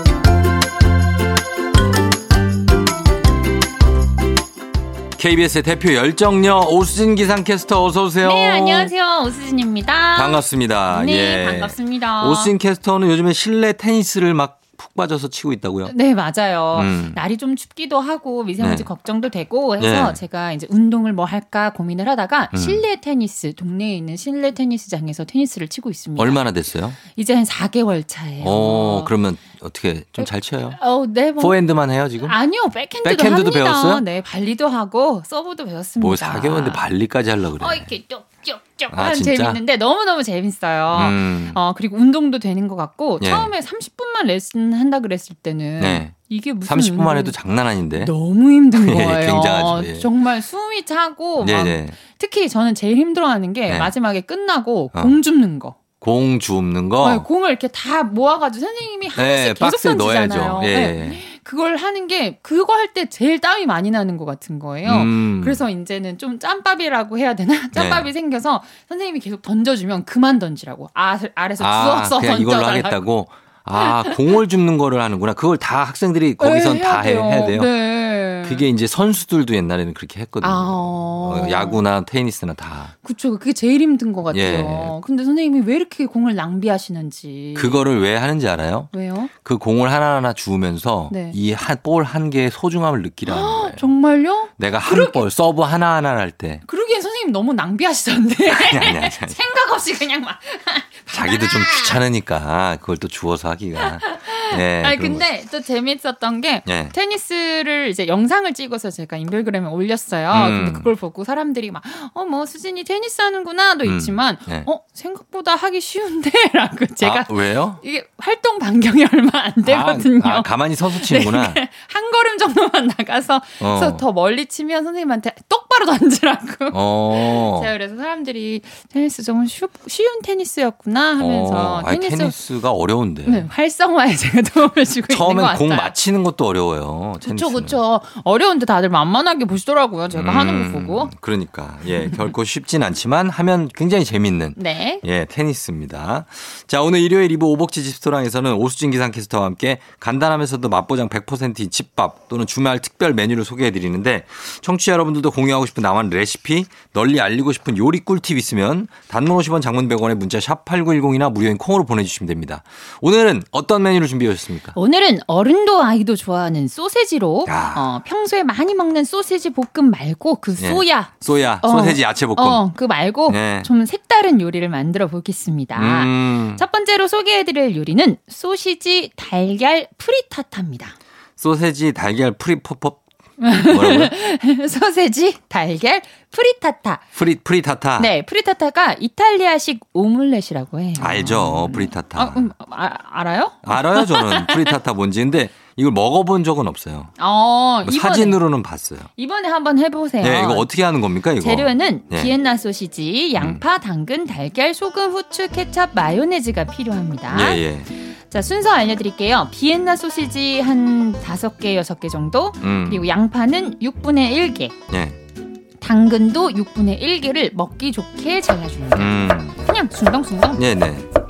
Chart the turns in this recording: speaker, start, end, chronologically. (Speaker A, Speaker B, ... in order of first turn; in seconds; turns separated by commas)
Speaker A: 5.2-8.9, Speaker B: 8.2-12.5, Speaker A: 10.2-15.9, Speaker B: 15.9-26.4, Speaker A: 16.7-17.2, Speaker A: 18.6-18.9, Speaker A: 19.8-20.2, Speaker A: 22.5-22.8, Speaker A: 26.2-27.0, Speaker B: 27.1-29.1, Speaker A: 28.4-30.8, Speaker B: 30.2-31.6, Speaker A: 31.4-32.4, Speaker B: 32.2-36.8, Speaker A: 33.0-34.0, Speaker A: 36.0-37.9, Speaker B: 37.6-47.4, Speaker A: 38.9-39.6, Speaker A: 40.9-41.6, Speaker A: 43.2-43.5, Speaker A: 45.8-46.1, Speaker A: 46.6-48.1, Speaker B: 48.0-55.8, Speaker A: 48.8-50.1, Speaker A: 51.4-52.0, Speaker A: 56.0-57.3, Speaker B: 57.0-73.0, Speaker A: 59.1-61.2, Speaker A: 64.8-65.6, Speaker A: 67.8-68.1, Speaker A: 71.6-77.7, Speaker B: 73.8-74.2, Speaker B: 76.4-78.7, Speaker A: 78.4-82.9, Speaker B: 80.4-81.8, Speaker B: 83.0-87.9, Speaker A: 84.3-85.0, Speaker A: 87.5-88.9, Speaker B: 88.9-89.3, Speaker A: 89.4-93.9, Speaker B: 91.1-91.4, Speaker B: 93.3-95.2, Speaker A: 94.6-96.6, Speaker B: 96.7-102.0, Speaker A: 98.5-99.4, Speaker A: 101.1-105.2, Speaker B: 103.8-132.4, Speaker A: 106.7-106.9, Speaker A: 110.3-110.9, Speaker A: 113.8-114.7, Speaker A: 117.0-117.8, Speaker A: 119.7-121.6, Speaker A: 123.6-124.0, Speaker A: 126.7-127.7, Speaker A: 131.2-133.5, Speaker B: 133.2-135.9, Speaker A: 135.1-137.8, Speaker B: 137.2-141.1, Speaker A: 140.1-164.8, Speaker B: 144.6-145.0, Speaker B: 164.8-180.9, Speaker A: 167.5-167.9, Speaker A: 170.6-172.6, Speaker A: 173.3-173.7, Speaker A: 175.8-176.6, Speaker A: 181.4-183.0, Speaker B: 183.4-187.1, Speaker A: 183.7-184.1, Speaker A: 187.2-188.1, Speaker B: 188.0-194.8, Speaker A: 191.0-192.5, Speaker A: 193.6-197.1, Speaker B: 197.2-198.4, Speaker A: 197.8-199.1, Speaker B: 199.2-200.7, Speaker A: 200.2-202.3, Speaker B: 201.4-214.8, Speaker A: 203.4-203.6, Speaker A: 207.3-207.9, Speaker A: 212.6-213.1, Speaker A: 214.9-215.2, Speaker B: 215.8-220.6, Speaker A: 218.9-219.6, Speaker A: 220.6-221.1